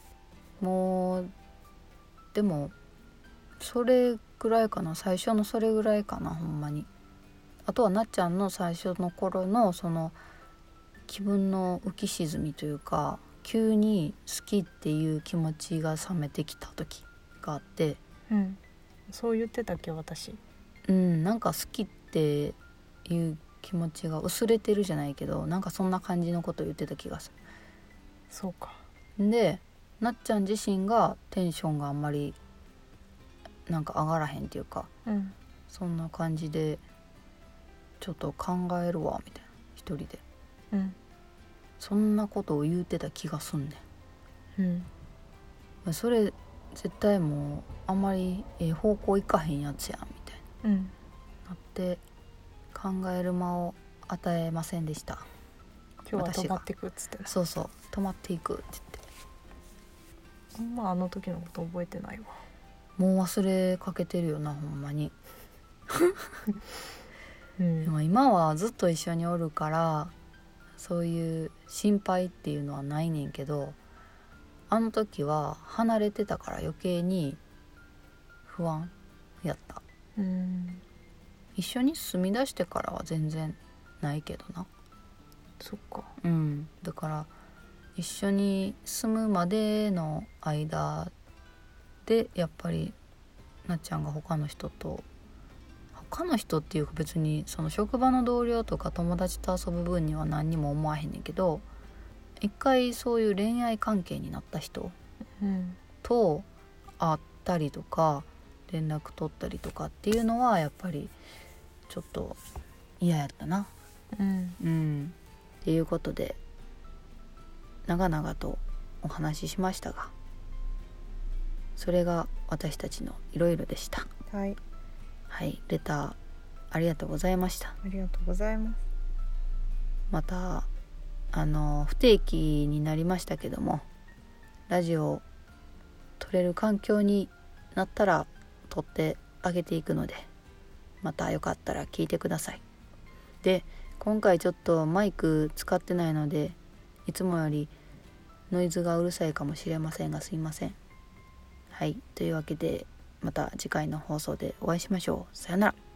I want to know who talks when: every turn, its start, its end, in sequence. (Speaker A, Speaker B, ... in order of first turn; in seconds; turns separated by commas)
Speaker A: 0.6-1.3, Speaker A: 2.3-2.7, Speaker A: 3.6-6.9, Speaker A: 7.7-10.2, Speaker A: 11.1-18.0, Speaker B: 18.3-20.4, Speaker A: 20.9-27.3, Speaker B: 28.3-28.8, Speaker A: 29.2-32.4, Speaker A: 33.7-34.9, Speaker B: 35.0-35.3, Speaker A: 35.7-36.8, Speaker A: 38.0-40.2, Speaker A: 41.8-43.8, Speaker B: 44.6-44.9, Speaker A: 45.8-50.4, Speaker B: 50.6-50.9, Speaker A: 51.5-52.0, Speaker A: 52.7-55.2, Speaker B: 56.0-57.3, Speaker A: 56.1-56.6, Speaker A: 57.2-59.0, Speaker B: 60.5-62.3, Speaker A: 63.0-65.1, Speaker A: 65.9-66.1, Speaker B: 67.6-67.9, Speaker A: 67.8-70.1, Speaker A: 70.8-73.8, Speaker A: 74.7-77.4, Speaker A: 78.5-79.8, Speaker B: 80.2-80.8, Speaker A: 81.5-84.7, Speaker B: 85.6-86.1, Speaker A: 86.2-87.3, Speaker A: 88.0-91.1, Speaker A: 92.0-93.0, Speaker A: 93.7-95.0, Speaker A: 95.9-101.6, Speaker A: 102.4-104.9, Speaker B: 105.4-105.8, Speaker A: 106.0-106.5, Speaker A: 107.0-111.1, Speaker A: 111.9-112.4, Speaker A: 113.0-113.7, Speaker B: 114.1-114.6, Speaker A: 114.6-116.4, Speaker A: 117.8-120.1, Speaker A: 121.8-124.1, Speaker B: 124.3-124.6, Speaker A: 125.3-126.2, Speaker A: 126.7-127.8, Speaker B: 127.8-128.8, Speaker A: 130.1-130.7, Speaker A: 131.3-133.8, Speaker A: 134.7-135.2, Speaker A: 136.2-140.3, Speaker A: 141.0-142.6, Speaker A: 143.4-147.7, Speaker A: 148.5-150.8, Speaker A: 151.7-155.7